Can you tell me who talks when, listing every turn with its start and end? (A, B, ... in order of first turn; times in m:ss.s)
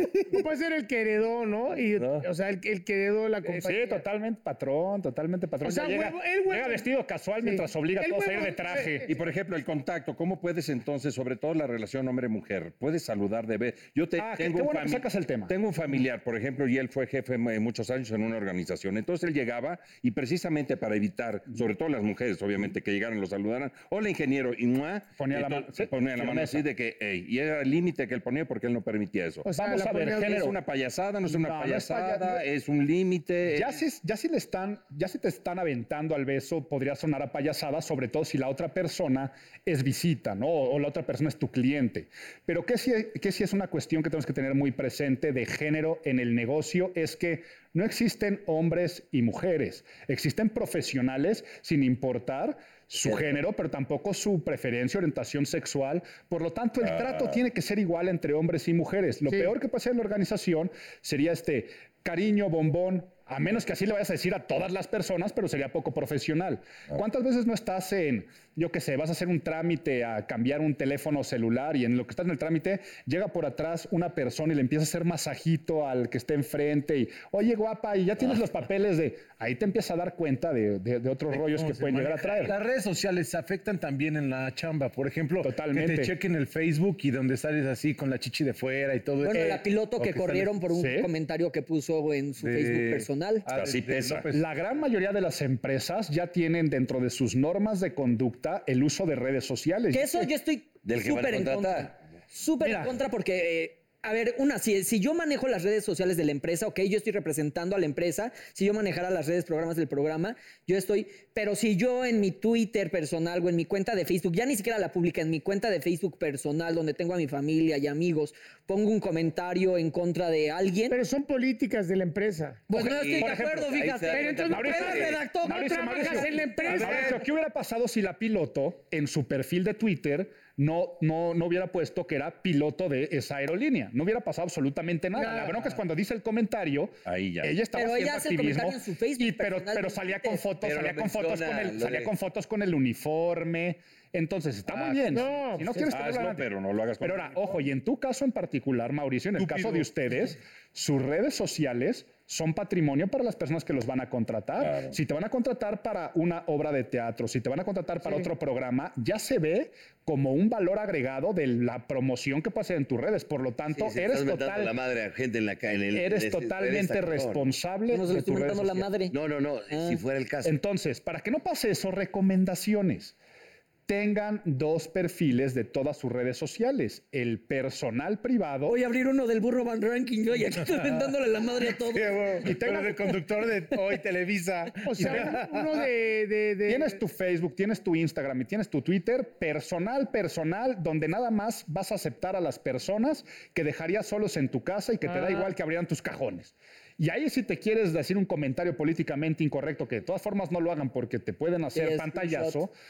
0:00.3-0:04.0 A
0:02.0-0:02.2 B
0:03.5-0:09.1 C
0:05.6-0:06.9 A
0:07.4-0:09.1 A
0:09.1-0:29.5 B
0:14.2-0:15.5 C
0:25.2-0:26.7 C
0:29.4-0:30.5 A
0:29.6-0:30.6 C
0:30.3-0:33.8 B
0:31.3-0:32.4 C
0:33.5-1:22.6 C
0:56.8-0:57.4 B
1:21.3-1:30.6 D
1:25.4-1:26.2 C
1:29.2-1:33.5 E
1:30.7-1:31.1 C
1:32.4-1:34.4 D
1:33.5-1:34.4 B
1:34.3-1:40.3 C
1:39.9-2:01.0 E
1:40.8-1:42.0 F
1:42.6-1:43.0 C
2:00.9-2:02.7 A
2:02.7-2:07.0 E
2:02.7-2:05.2 F
2:03.2-2:03.9 C
2:04.1-2:07.2 A
2:04.4-2:26.5 C
2:15.1-2:15.6 A
2:17.0-2:17.6 B
2:17.7-2:20.5 E
2:20.6-2:22.1 F
2:25.1-2:25.9 A
2:25.9-2:27.6 B
2:27.0-2:44.8 C
2:29.5-2:29.9 D
2:34.6-2:35.0 B
2:43.8-2:47.5 F
2:45.9-2:48.9 C
2:47.9-2:49.2 E
2:49.1-2:50.6 F
2:49.7-2:50.0 E
2:50.4-2:53.2 C
2:53.9-2:58.8 C
2:58.7-3:02.2 E
3:01.8-3:05.7 D
3:02.4-3:03.3 C
3:04.8-3:07.0 A
3:05.0-3:05.4 C
3:06.7-3:22.7 C
3:15.0-3:15.5 A
3:21.8-3:22.6 E